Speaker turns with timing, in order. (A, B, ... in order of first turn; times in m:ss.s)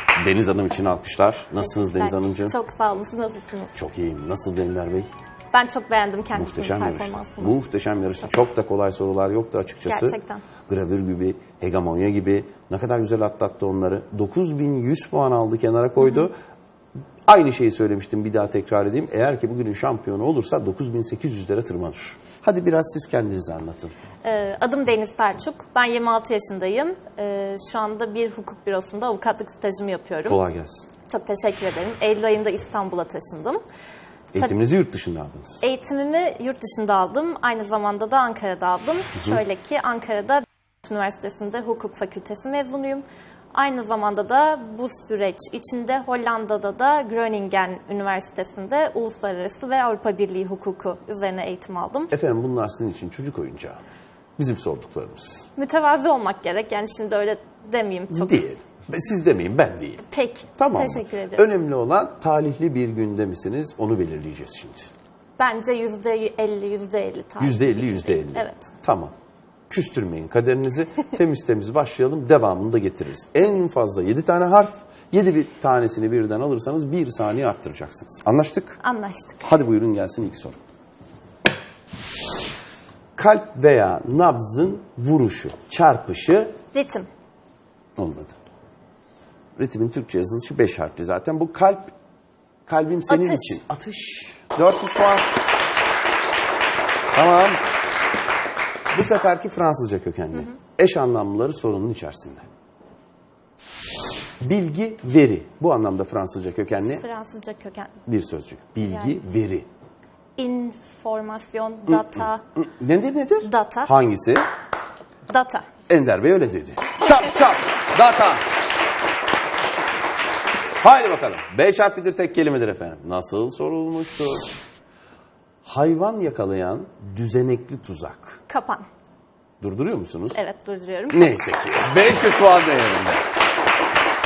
0:00.2-0:02.6 A
0:01.6-0:03.8 B
0:03.8-0:05.1 A
0:05.5-0:07.6 B
0:06.3-0:16.3 A
0:09.9-0:10.4 B
0:16.0-0:16.3 B
0:17.3-0:23.9 A
0:24.2-0:30.4 B
0:30.3-0:30.9 A
0:31.1-0:33.6 B
0:34.3-0:35.6 A
0:35.6-0:52.1 B
0:39.2-0:39.4 A
0:52.1-0:53.8 A
0:54.4-0:55.5 A
0:55.6-0:58.4 B
0:58.1-1:00.0 A
1:00.0-1:01.5 B
1:00.6-1:04.9 A
1:05.4-1:08.7 B
1:07.4-1:09.1 A
1:09.7-1:18.8 A
1:18.8-1:19.5 B
1:19.4-1:20.6 A
1:23.2-1:26.6 A
1:26.7-1:27.1 B
1:28.0-1:28.4 A
1:29.6-1:31.9 A
1:32.7-1:35.3 A
1:33.1-1:33.6 B
1:37.1-1:37.6 A
1:38.9-1:42.5 A
1:44.4-1:47.0 A
1:46.8-1:48.0 B
1:48.1-1:49.7 A
1:48.8-1:49.2 B
1:50.4-1:52.4 B
1:51.9-1:54.5 A
1:53.4-1:53.9 B
1:55.3-1:55.7 B
1:55.9-1:58.4 A
2:00.8-2:04.5 A
2:05.6-2:08.4 A
2:08.5-2:08.9 B
2:09.6-2:10.4 A
2:10.3-2:11.3 B
2:11.1-2:13.2 A